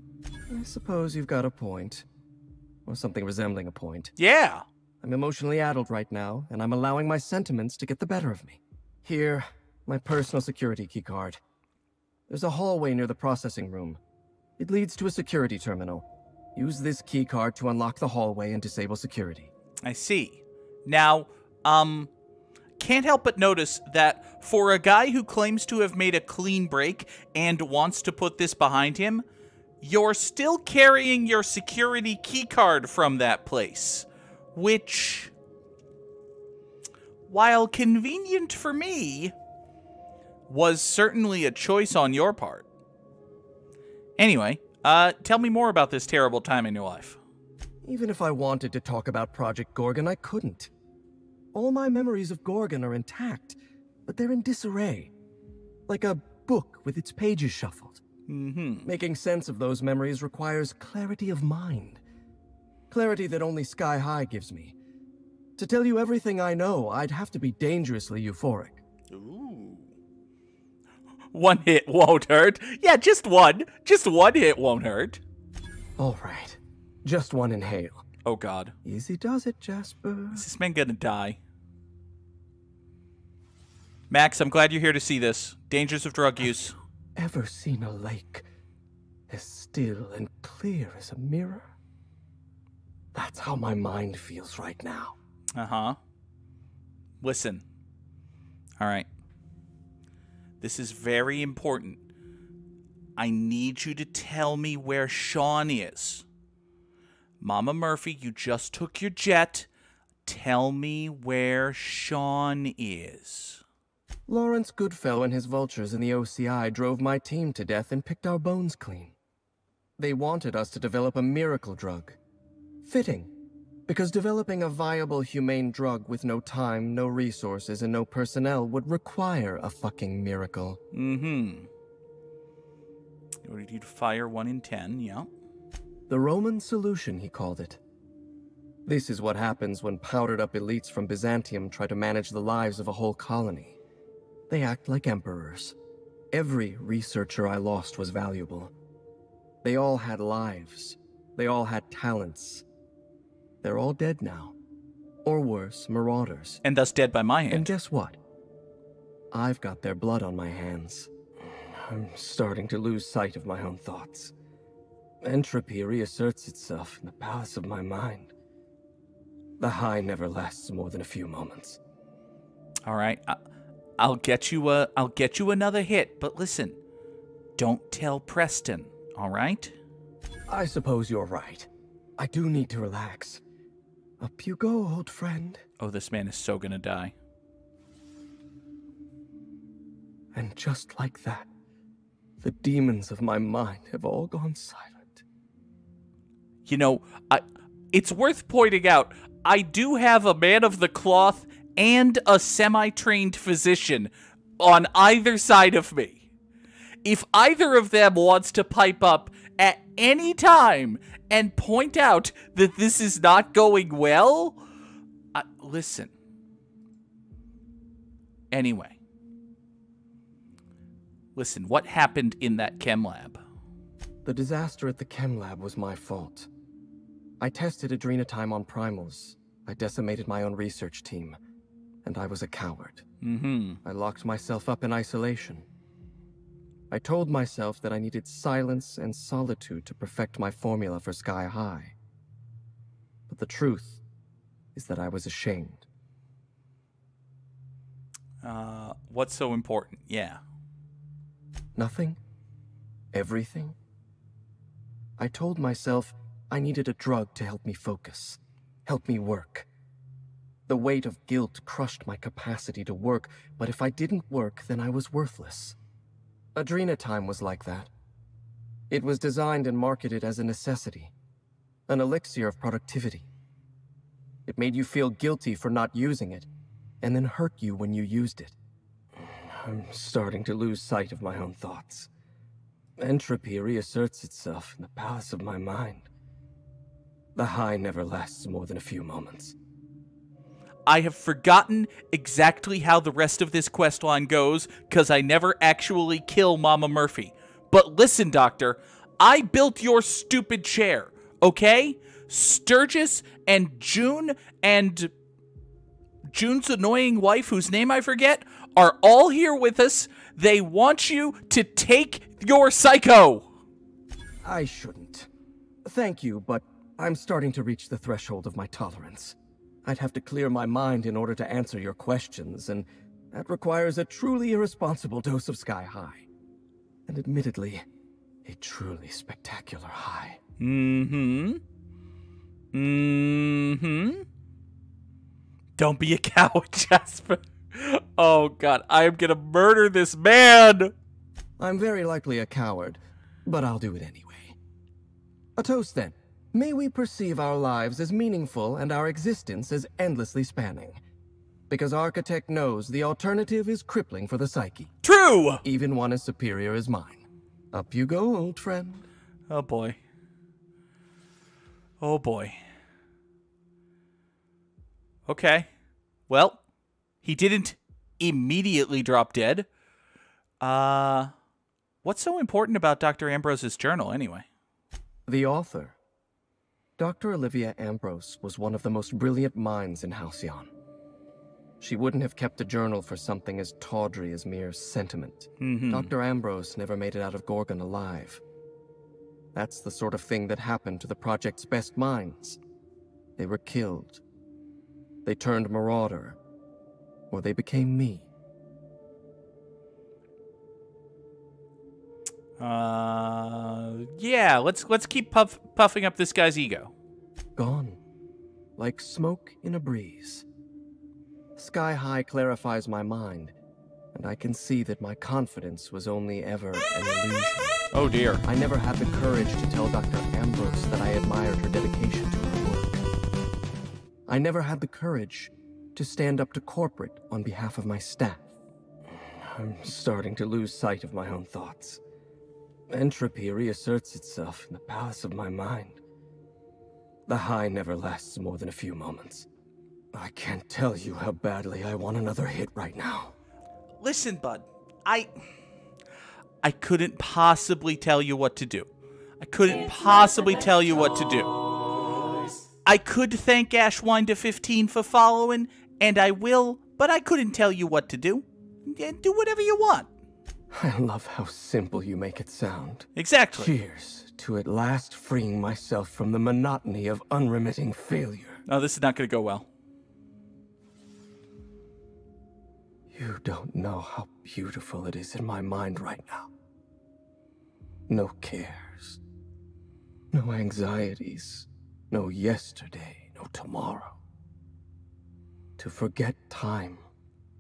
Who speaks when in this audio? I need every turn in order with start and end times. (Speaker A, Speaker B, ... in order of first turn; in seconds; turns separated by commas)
Speaker A: 0.5-2.1, Speaker A: 2.9-4.1, Speaker B: 4.2-4.7, Speaker A: 5.0-11.4, Speaker A: 12.3-14.0, Speaker A: 14.6-19.5, Speaker B: 19.8-22.1, Speaker B: 22.8-29.2, Speaker B: 29.8-35.3, Speaker B: 37.3-39.3, Speaker B: 40.5-42.7, Speaker B: 44.2-47.2, Speaker A: 47.8-50.7, Speaker A: 51.5-55.1, Speaker A: 55.9-58.0, Speaker B: 58.3-58.9, Speaker A: 58.9-62.0, Speaker A: 62.9-64.8, Speaker A: 65.6-68.8, Speaker B: 69.1-69.9, Speaker B: 71.3-75.2, Speaker A: 76.0-78.0, Speaker B: 78.2-78.7, Speaker A: 78.8-80.5, Speaker B: 80.3-81.4, Speaker B: 84.1-86.8, Speaker A: 87.2-88.5, Speaker A: 89.3-91.7, Speaker A: 93.1-95.2, Speaker B: 95.6-96.0, Speaker B: 97.2-97.6, Speaker B: 98.8-99.1, Speaker B: 100.6-102.0, Speaker B: 103.2-106.2, Speaker B: 107.4-109.7, Speaker B: 110.3-113.6, Speaker A: 114.3-119.2, Speaker A: 120.0-122.2, Speaker A: 122.8-123.3, Speaker A: 123.9-130.8, Speaker B: 130.9-131.7, Speaker B: 133.4-135.3, Speaker A: 136.1-137.8, Speaker A: 138.9-143.8, Speaker A: 144.5-145.8, Speaker A: 146.3-148.7, Speaker A: 149.6-152.7, Speaker A: 153.6-154.6, Speaker A: 155.2-156.6, Speaker B: 156.6-157.7, Speaker A: 157.5-158.2, Speaker A: 159.3-164.3, Speaker A: 165.2-168.3, Speaker A: 169.6-171.8, Speaker B: 172.9-173.4, Speaker B: 174.0-176.8, Speaker B: 177.6-179.8, Speaker A: 180.5-183.4, Speaker A: 184.2-185.7, Speaker B: 185.8-187.1, Speaker A: 190.3-191.5, Speaker A: 192.4-195.2, Speaker B: 196.7-206.2, Speaker B: 207.0-214.6, Speaker B: 215.3-216.1, Speaker B: 218.5-219.0, Speaker B: 221.4-223.4, Speaker A: 224.2-226.5, Speaker A: 227.4-231.4, Speaker A: 232.0-233.1, Speaker B: 233.2-233.8, Speaker A: 233.8-235.7, Speaker A: 236.9-241.9, Speaker A: 243.3-244.0, Speaker A: 244.8-245.8, Speaker B: 248.4-250.4, Speaker A: 251.8-252.2, Speaker A: 253.1-253.8, Speaker A: 255.2-259.7, Speaker A: 260.7-265.8, Speaker A: 266.6-267.9, Speaker A: 268.9-271.1, Speaker A: 271.9-273.3, Speaker A: 274.5-276.5, Speaker A: 277.0-278.6, Speaker A: 279.2-282.1, Speaker A: 283.0-286.1, Speaker A: 287.4-289.6, Speaker B: 290.9-305.1, Speaker B: 306.3-313.5, Speaker A: 314.4-315.3, Speaker A: 315.9-326.3, Speaker A: 327.1-327.9, Speaker A: 328.4-330.4, Speaker B: 330.6-331.6, Speaker B: 332.7-334.2, Speaker B: 335.8-340.9, Speaker A: 341.6-344.6, Speaker A: 345.6-351.0, Speaker A: 351.7-354.9, Speaker B: 355.0-355.6, Speaker A: 355.6-359.1, Speaker B: 359.5-360.0, Speaker B: 362.0-362.6, Speaker B: 365.3-365.7, Speaker B: 366.3-366.6, Speaker B: 367.2-369.7, Speaker B: 370.6-371.3, Speaker B: 372.0-374.5, Speaker A: 375.3-376.0, Speaker A: 377.0-380.7, Speaker A: 381.8-388.4, Speaker B: 385.6-386.1, Speaker A: 389.5-392.6, Speaker A: 393.4-394.2, Speaker A: 395.2-396.4, Speaker A: 397.3-398.3, Speaker B: 402.6-406.9, Speaker A: 407.6-408.0, Speaker A: 408.8-410.5, Speaker A: 411.6-413.6, Speaker A: 414.1-417.9, Speaker B: 417.9-418.4, Speaker A: 418.4-423.0, Speaker A: 424.3-428.5, Speaker A: 429.1-432.0, Speaker A: 432.9-436.0, Speaker A: 437.3-439.5, Speaker A: 440.1-443.3, Speaker B: 444.0-445.3, Speaker B: 446.6-448.9, Speaker B: 449.4-451.5, Speaker B: 452.9-460.1, Speaker A: 460.7-468.6, Speaker B: 463.2-463.7, Speaker B: 468.7-469.7, Speaker A: 473.1-476.5, Speaker A: 478.1-479.2, Speaker A: 480.3-484.2, Speaker A: 485.8-487.1